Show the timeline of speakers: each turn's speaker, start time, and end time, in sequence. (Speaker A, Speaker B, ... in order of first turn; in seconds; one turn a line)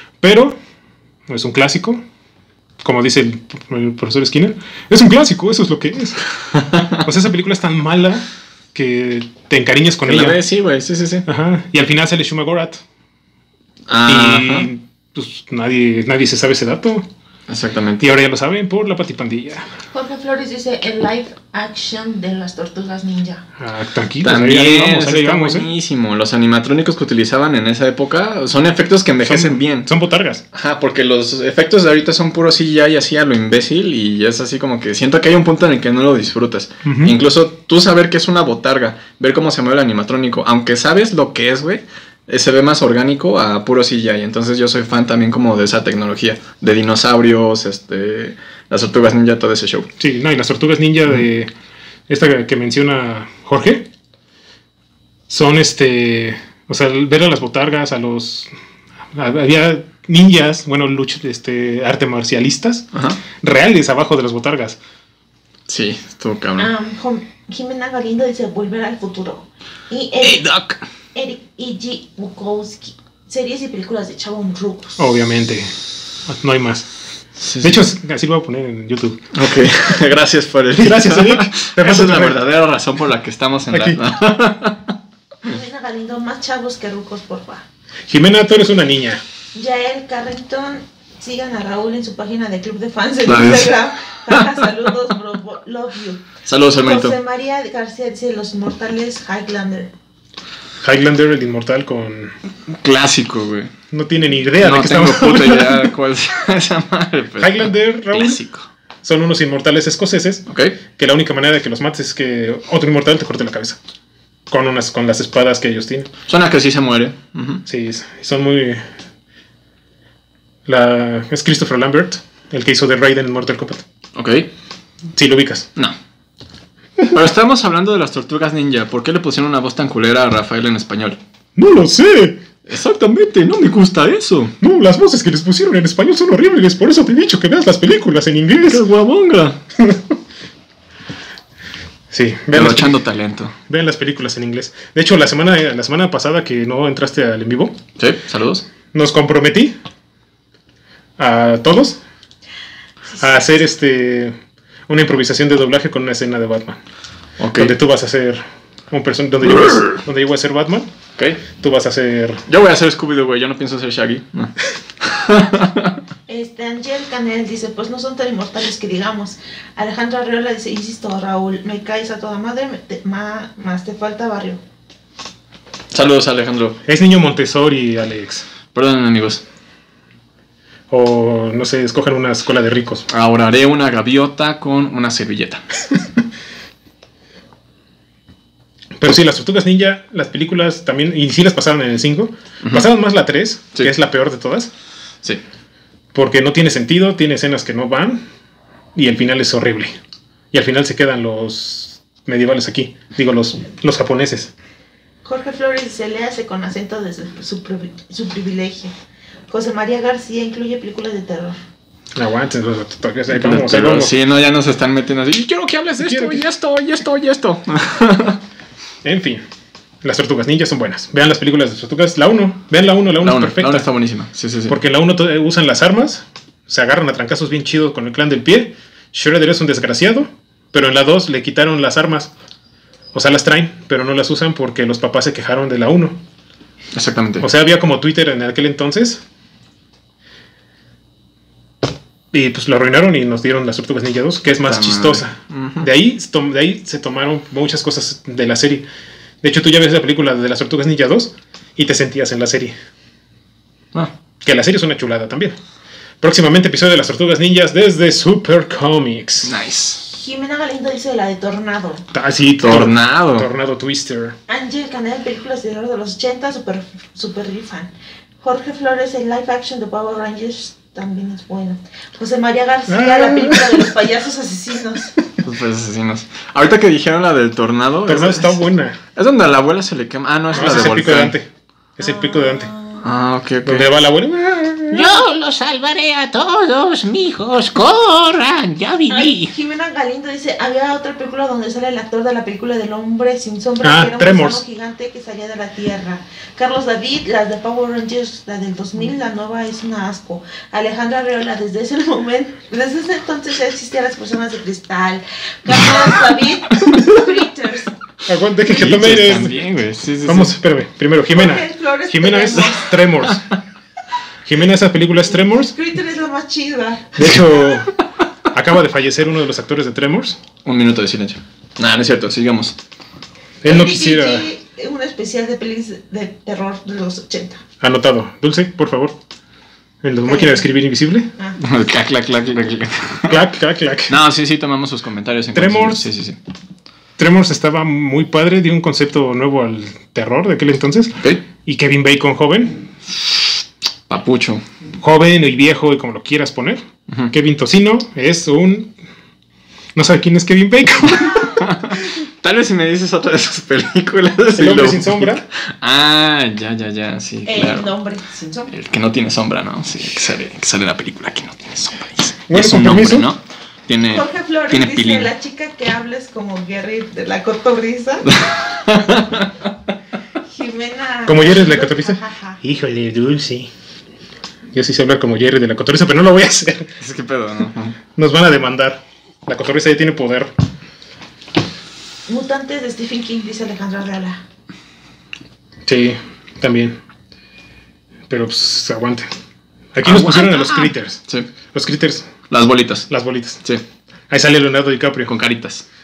Speaker A: 0.2-0.6
Speaker A: 1.3-2.0
Speaker A: 2.8-6.2
Speaker B: 6.7-7.0
Speaker A: 6.9-10.4
Speaker B: 10.1-11.2
Speaker A: 11.2-12.8
Speaker B: 13.9-14.7
Speaker A: 14.1-17.1
Speaker B: 17.5-18.1
Speaker A: 18.0-19.7
Speaker C: 19.9-23.4
Speaker A: 23.6-25.7
Speaker B: 24.2-29.9
Speaker A: 29.2-30.4
Speaker B: 30.5-49.9
Speaker A: 36.8-37.2
Speaker A: 50.0-51.5
Speaker A: 52.1-53.9
Speaker A: 55.3-58.5
Speaker A: 59.1-62.9
Speaker B: 62.9-63.2
Speaker A: 63.4-64.8
Speaker B: 65.7-66.7
Speaker C: 66.6-70.5
Speaker B: 70.2-70.8
Speaker C: 71.1-75.0
Speaker A: 75.0-75.7
Speaker A: 76.2-76.9
Speaker B: 77.4-77.8
Speaker A: 77.6-79.2
Speaker B: 79.3-84.9
Speaker A: 80.8-82.4
Speaker A: 83.7-84.0
Speaker C: 85.4-87.6
Speaker A: 88.1-89.2
Speaker C: 89.5-96.2
Speaker B: 93.2-93.8
Speaker B: 96.5-97.1
Speaker C: 96.8-99.9
Speaker A: 100.8-102.3
Speaker B: 102.7-103.7
Speaker A: 103.9-105.9
Speaker B: 104.6-108.7
Speaker A: 107.4-108.4
Speaker A: 109.0-113.8
Speaker B: 110.5-110.8
Speaker A: 114.5-116.1
Speaker B: 116.3-117.6
Speaker A: 117.7-118.9
Speaker A: 120.7-123.8
Speaker B: 124.1-124.5
Speaker A: 125.1-125.7
Speaker B: 127.1-131.2
Speaker A: 131.6-132.4
Speaker B: 132.7-134.5
Speaker A: 134.6-138.8
Speaker B: 138.7-139.6
Speaker A: 139.8-140.1
Speaker A: 142.1-143.0
Speaker B: 142.5-143.5
Speaker A: 143.7-147.8
Speaker B: 148.0-148.6
Speaker A: 148.9-149.8
Speaker A: 151.2-152.0
Speaker A: 153.1-154.3
Speaker A: 154.9-156.8
Speaker B: 157.4-157.7
Speaker A: 157.5-160.9
Speaker B: 159.5-160.0
Speaker B: 161.2-161.4
Speaker A: 161.5-162.4
Speaker B: 162.5-166.0
Speaker C: 166.3-174.6
Speaker B: 175.9-176.8
Speaker A: 176.8-178.4
Speaker B: 178.7-179.4
Speaker A: 180.9-183.0
Speaker B: 183.1-185.6
Speaker A: 189.0-194.7
Speaker A: 196.1-198.2
Speaker A: 198.9-200.0
Speaker A: 200.5-204.5
Speaker C: 205.2-208.9
Speaker C: 209.5-211.6
Speaker A: 212.1-214.1
Speaker B: 213.3-218.4
Speaker A: 216.0-216.4
Speaker A: 219.0-219.4
Speaker A: 220.0-223.9
Speaker B: 223.2-224.8
Speaker A: 224.7-232.3
Speaker A: 233.1-236.2
Speaker B: 236.9-237.5
Speaker A: 237.4-239.2
Speaker A: 242.3-248.8
Speaker B: 244.6-245.9
Speaker A: 249.4-252.7
Speaker A: 254.4-255.6
Speaker A: 256.2-259.5
Speaker B: 259.4-260.0
Speaker C: 260.0-262.1
Speaker A: 262.1-264.4
Speaker B: 262.6-263.5
Speaker C: 264.5-275.1
Speaker A: 272.9-273.9
Speaker B: 275.4-278.6
Speaker A: 278.1-279.0
Speaker B: 279.1-281.4
Speaker A: 280.5-282.7
Speaker C: 282.0-283.1
Speaker B: 283.0-284.0
Speaker A: 283.6-285.2
Speaker D: 284.9-289.5
Speaker C: 289.1-307.9
Speaker A: 293.8-294.6
Speaker A: 308.2-309.6
Speaker B: 308.6-310.5
Speaker A: 310.2-313.4
Speaker C: 311.3-313.1
Speaker A: 314.4-315.7
Speaker C: 315.4-317.2
Speaker A: 317.1-317.9
Speaker A: 318.5-320.4
Speaker B: 320.6-322.7
Speaker A: 323.6-324.5
Speaker C: 323.6-327.6
Speaker A: 327.8-329.2
Speaker A: 330.0-331.3
Speaker C: 330.2-330.6
Speaker B: 331.6-333.4
Speaker A: 333.3-334.2
Speaker B: 334.1-336.4
Speaker A: 335.5-336.1
Speaker A: 337.2-342.8
Speaker B: 344.1-344.6
Speaker A: 345.0-348.9
Speaker A: 349.9-351.7
Speaker B: 351.5-357.9
Speaker A: 354.6-355.4
Speaker C: 357.4-358.7
Speaker B: 358.7-365.3
Speaker A: 362.5-363.3
Speaker C: 364.1-368.4
Speaker B: 368.3-369.5
Speaker C: 370.4-372.6
Speaker A: 371.2-373.7
Speaker A: 374.7-376.9
Speaker B: 377.0-378.0
Speaker A: 378.1-380.5
Speaker C: 382.3-384.4
Speaker A: 385.9-387.0
Speaker A: 388.3-389.3
Speaker A: 389.9-391.2
Speaker B: 390.0-391.5
Speaker A: 391.7-392.3
Speaker B: 392.5-393.1
Speaker A: 393.1-393.6
Speaker A: 394.3-395.4
Speaker B: 395.2-395.9